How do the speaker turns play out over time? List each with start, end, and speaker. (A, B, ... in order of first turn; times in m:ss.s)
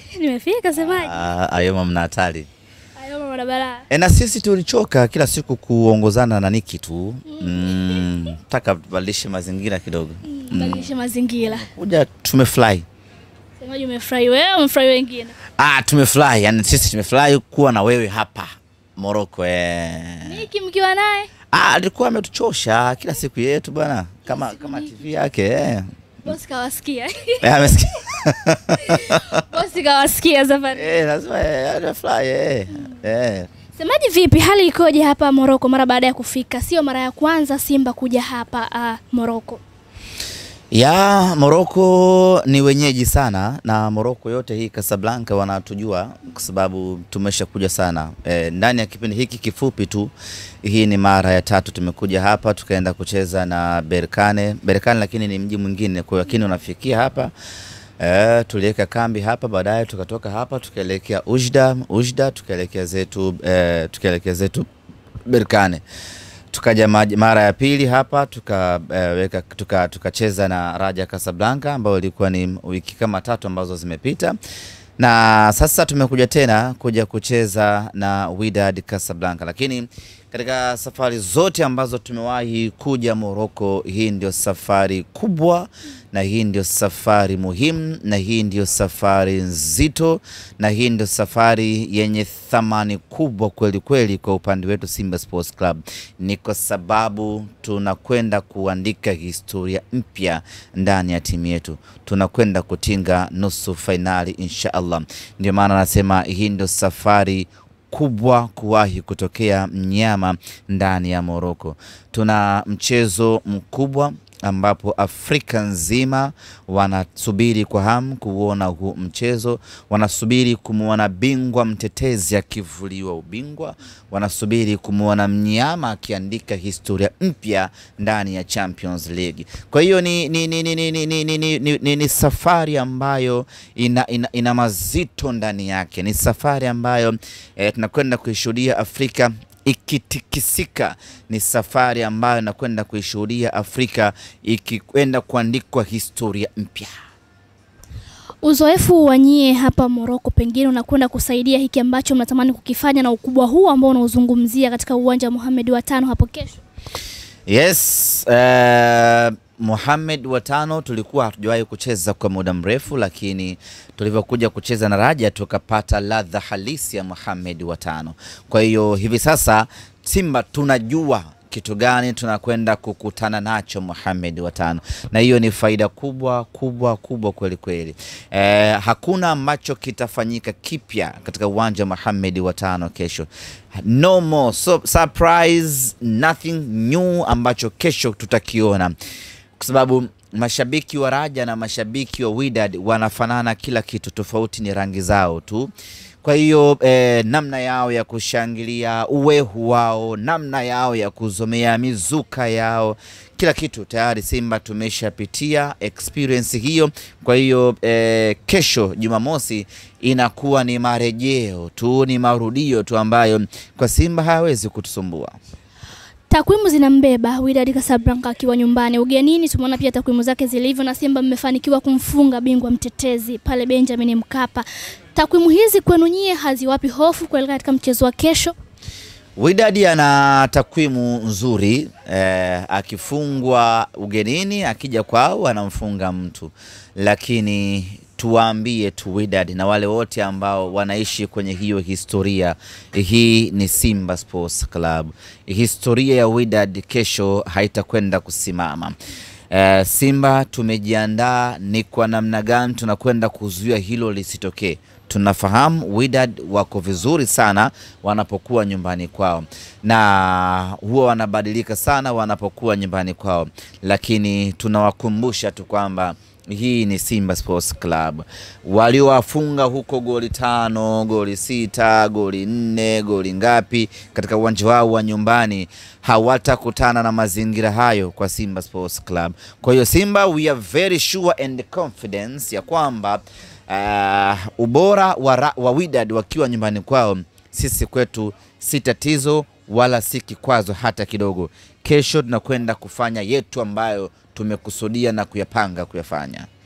0:00.1-0:01.2 A
0:00.8-0:02.5 B
0:03.0-0:03.8 A
0:03.9-0:10.9 B
0:07.3-0:07.8 A
0:10.3-0:11.7 A
0:11.4-0:12.8 B
0:13.6-0:15.4 A
0:15.6-0:20.4 B
0:20.2-0:21.3 A
0:21.5-0:25.8 B
0:26.2-0:27.4 A
0:27.4-0:29.3 B
0:28.9-0:30.8 A
0:30.7-0:33.5 B
0:33.8-0:39.6 A
0:40.7-0:57.3 B
0:58.0-1:04.7 B
1:05.3-1:05.8 B
1:06.5-1:14.4 B
1:15.0-2:26.9 B
2:28.4-2:36.6 A
2:37.5-3:08.9 B
3:09.6-3:15.7 B
3:16.2-3:35.4 B
3:36.3-3:48.5 A
3:49.4-4:09.0 B
4:09.5-4:56.5 B